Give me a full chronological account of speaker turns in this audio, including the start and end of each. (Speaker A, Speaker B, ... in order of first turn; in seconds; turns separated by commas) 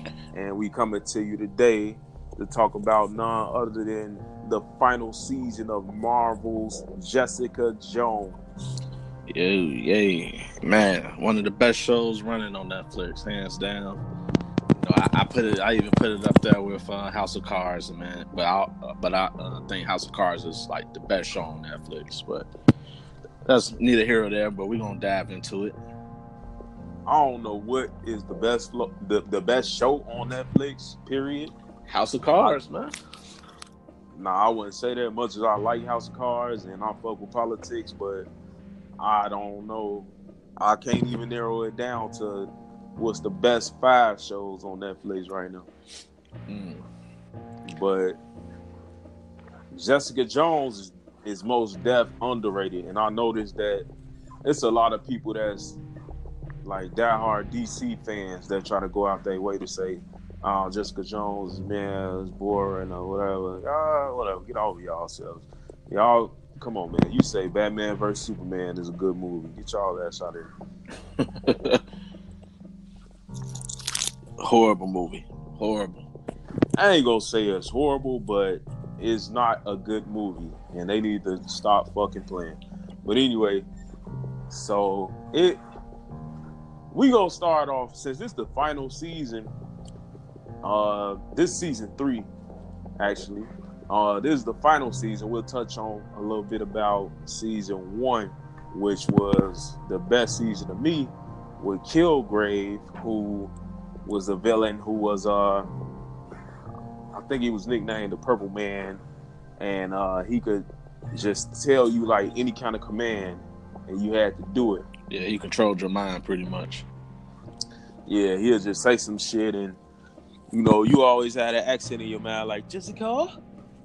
Speaker A: 0.3-8.4, Speaker B: 9.3-14.0, Speaker B: 14.7-22.5, Speaker B: 23.4-25.7, Speaker A: 27.1-31.5, Speaker B: 31.9-32.9, Speaker A: 34.1-38.3, Speaker A: 39.0-45.7, Speaker B: 46.5-46.8, Speaker A: 47.7-48.2, Speaker A: 49.7-53.9, Speaker A: 54.4-55.8, Speaker A: 56.6-70.5, Speaker B: 71.2-71.8, Speaker B: 74.4-76.0, Speaker A: 76.8-83.7, Speaker A: 84.5-85.6, Speaker A: 86.9-89.5, Speaker A: 90.6-92.3, Speaker A: 93.0-103.5, Speaker A: 104.0-105.7, Speaker A: 107.1-109.0, Speaker A: 109.6-114.8, Speaker B: 115.1-116.8, Speaker A: 118.1-119.8, Speaker A: 120.5-123.3